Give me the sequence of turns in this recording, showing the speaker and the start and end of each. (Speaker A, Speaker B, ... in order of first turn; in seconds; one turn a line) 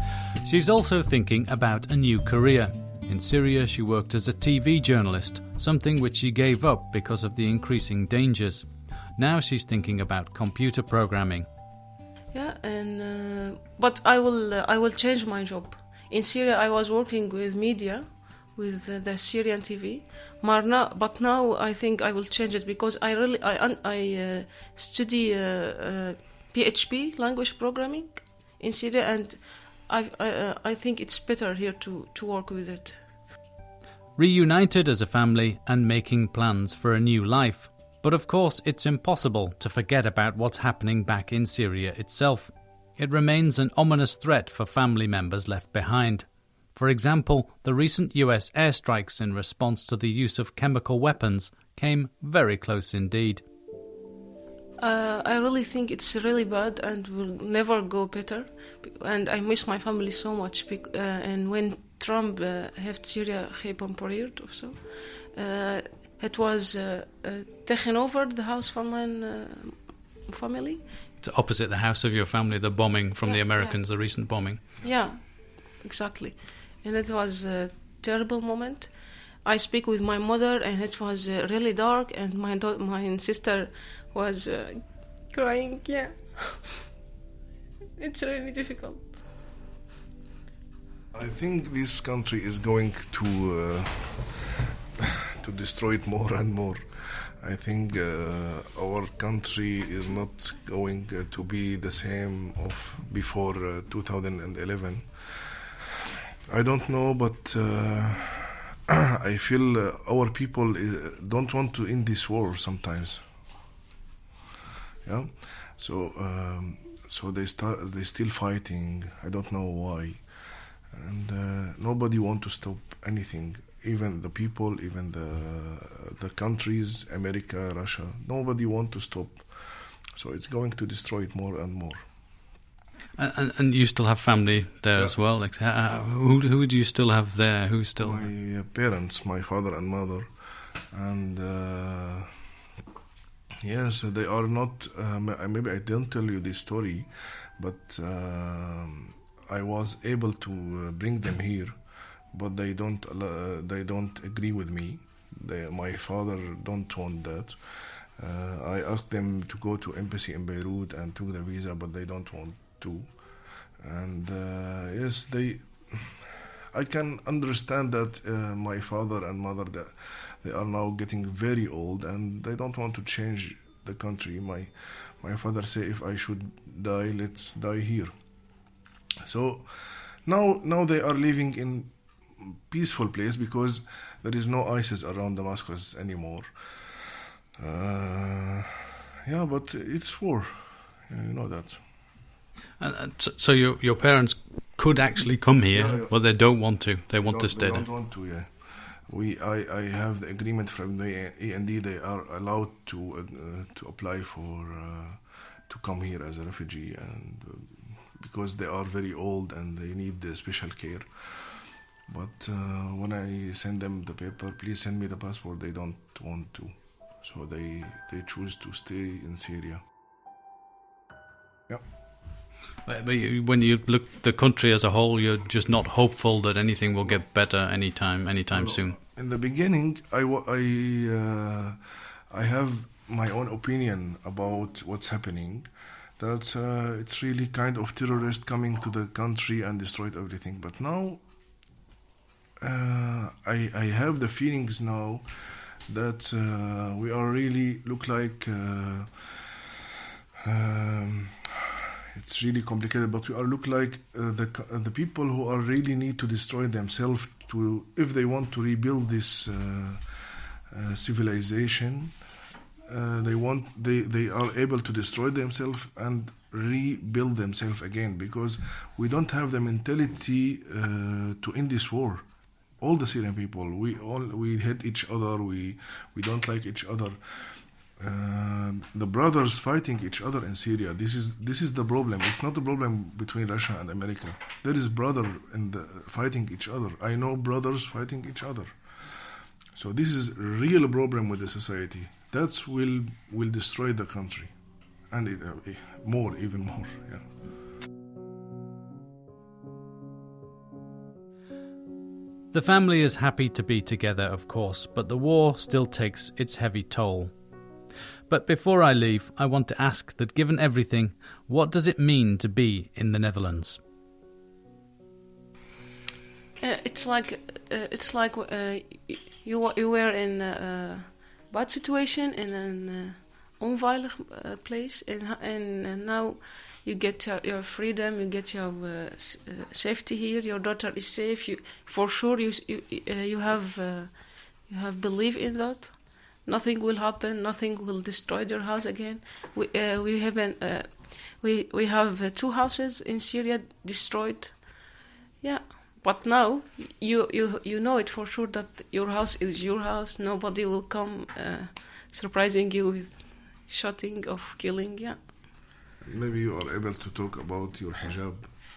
Speaker A: 0.4-11.5
Speaker B: 12.3-33.0
Speaker A: 34.2-53.4
Speaker B: 54.8-70.9
Speaker A: 71.2-74.6
Speaker B: 73.2-73.8
Speaker B: 74.8-86.8
Speaker B: 88.0-89.1
Speaker C: 91.1-105.8
Speaker C: 106.5-113.2
Speaker C: 115.0-132.1
Speaker A: 133.2-138.2
Speaker C: 138.0-142.3
Speaker C: 143.6-151.8
Speaker C: 152.3-178.1
Speaker C: 179.2-191.8
Speaker A: 192.8-197.8
Speaker C: 195.7-196.2
Speaker C: 197.1-219.8
Speaker A: 222.8-228.9
Speaker C: 228.5-241.2
Speaker C: 242.6-249.7
Speaker C: 250.4-262.2
Speaker C: 262.9-272.2
Speaker C: 272.8-294.5
Speaker C: 295.1-297.3
Speaker A: 302.5-307.3
Speaker A: 308.3-313.8
Speaker B: 316.6-344.9
Speaker B: 345.4-355.2
Speaker C: 356.0-358.5